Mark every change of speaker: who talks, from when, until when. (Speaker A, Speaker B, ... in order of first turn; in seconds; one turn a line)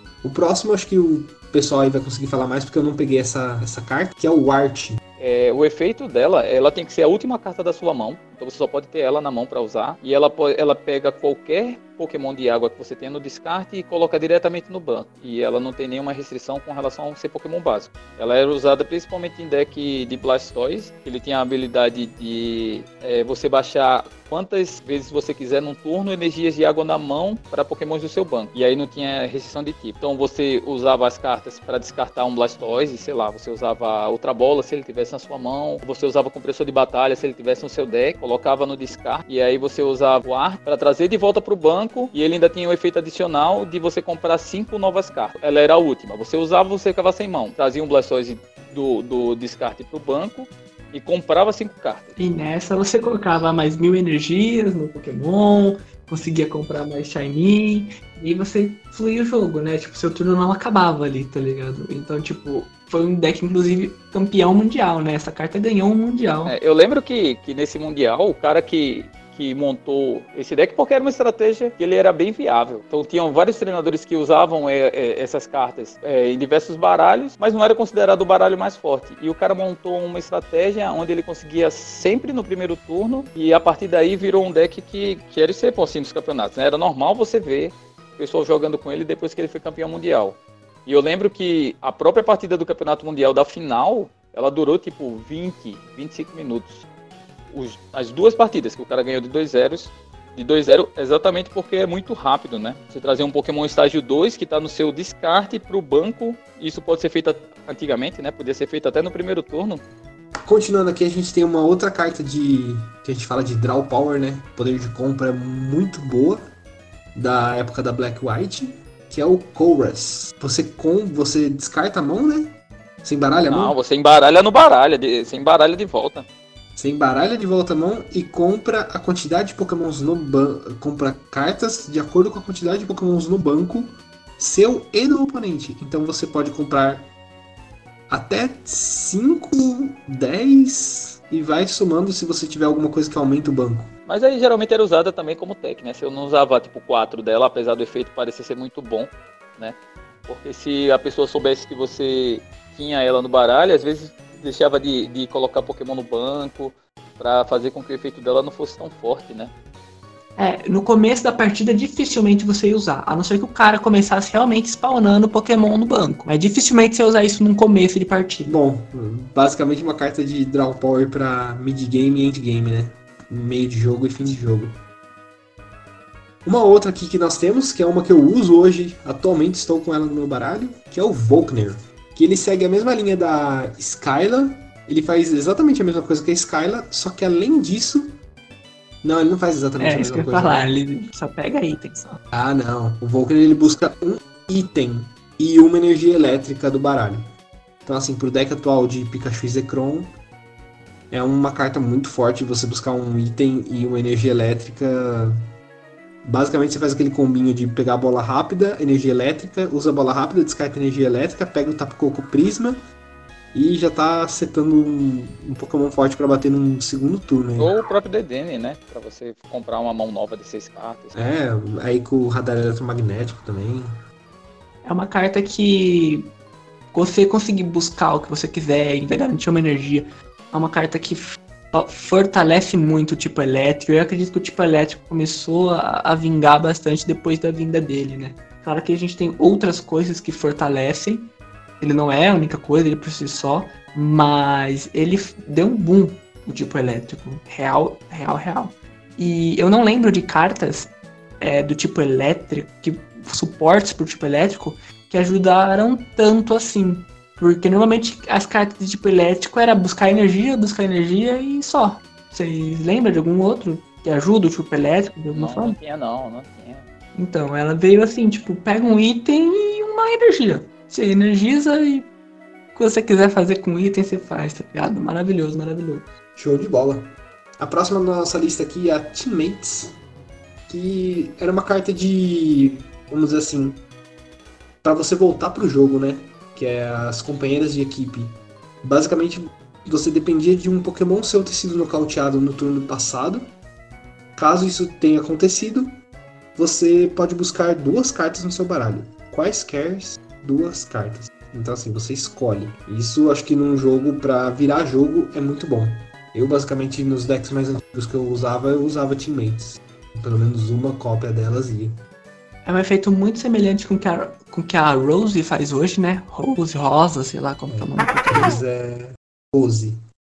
Speaker A: 0.2-5.0
Speaker B: 5.2-52.2
Speaker C: 52.2-66.5
Speaker B: 66.4-96.9
Speaker B: 97.5-109.8
Speaker A: 110.4-116.4
Speaker A: 117.1-123.8
Speaker B: 123.5-126.3
Speaker A: 126.8-137.1
Speaker A: 138.1-143.9
Speaker B: 144.1-159.5
Speaker C: 160.4-168.6
Speaker A: 168.4-174.7
Speaker A: 176.4-188.2
Speaker A: 189.0-190.7
Speaker C: 189.8-192.2
Speaker A: 192.3-197.3
Speaker A: 197.8-200.1
Speaker A: 201.1-205.4
Speaker A: 206.2-212.8
Speaker A: 213.5-217.7
Speaker B: 217.6-221.2
Speaker A: 221.1-223.9
Speaker C: 224.8-226.3
Speaker C: 226.9-265.8
Speaker B: 265.3-266.9
Speaker C: 267.1-272.1
Speaker C: 272.7-276.1
Speaker A: 276.4-279.9
Speaker A: 280.7-283.8
Speaker A: 284.8-293.5
Speaker A: 294.4-295.9
Speaker A: 296.6-311.9
Speaker C: 312.6-318.6
Speaker A: 317.7-320.0